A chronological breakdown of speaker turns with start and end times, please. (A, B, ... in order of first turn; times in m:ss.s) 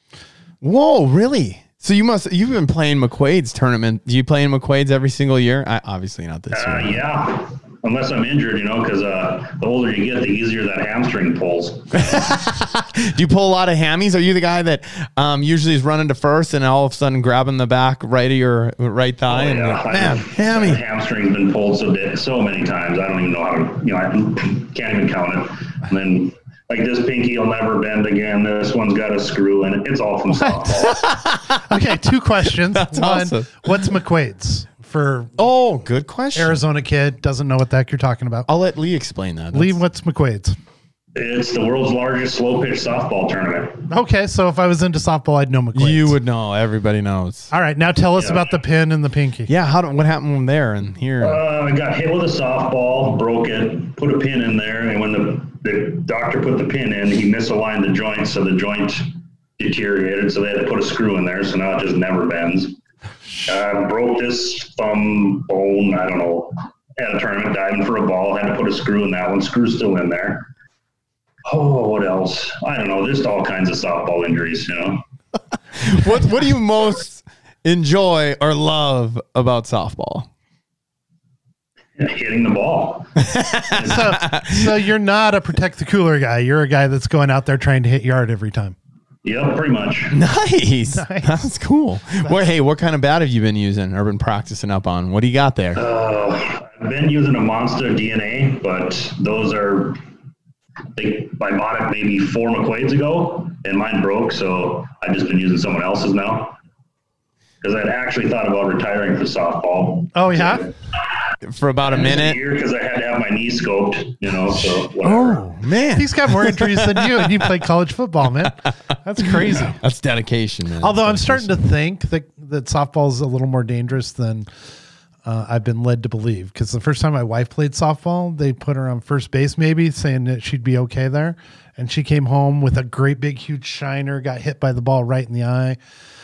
0:00.6-0:07.0 A
0:06.5-0:12.3 B
0:11.9-0:20.8 A
0:19.3-0:31.1 B
0:30.4-0:30.7 C
0:30.9-0:31.6 A
0:31.5-0:35.4 C
0:32.6-0:33.9 A
0:35.4-0:36.6 A
0:36.4-0:38.5 C
0:38.5-0:39.8 A
0:39.5-0:40.6 C
0:41.2-0:43.9 B
0:43.9-0:46.2 C
0:45.8-0:47.5 A
0:47.5-0:49.5 C
0:48.2-0:48.5 B
0:49.5-0:51.4 A
0:51.2-1:02.8 B
1:03.5-1:10.5 B
1:11.5-1:15.0 B
1:15.8-1:20.3 A
1:22.0-1:23.1 B
1:23.2-1:24.8 A
1:23.7-1:24.1 B
1:23.8-1:28.8 C
1:29.2-1:30.2 B
1:30.1-1:35.8 A
1:30.9-1:31.5 C
1:35.8-1:40.0 B
1:41.0-1:46.6 B
1:47.6-1:50.7 B
1:50.1-1:50.7 C
1:51.4-1:52.4 A
1:51.9-1:55.4 B
1:54.9-1:57.3 A
1:55.9-1:59.8 C
1:59.5-2:01.6 A
2:00.8-2:04.5 C
2:05.2-2:15.8 C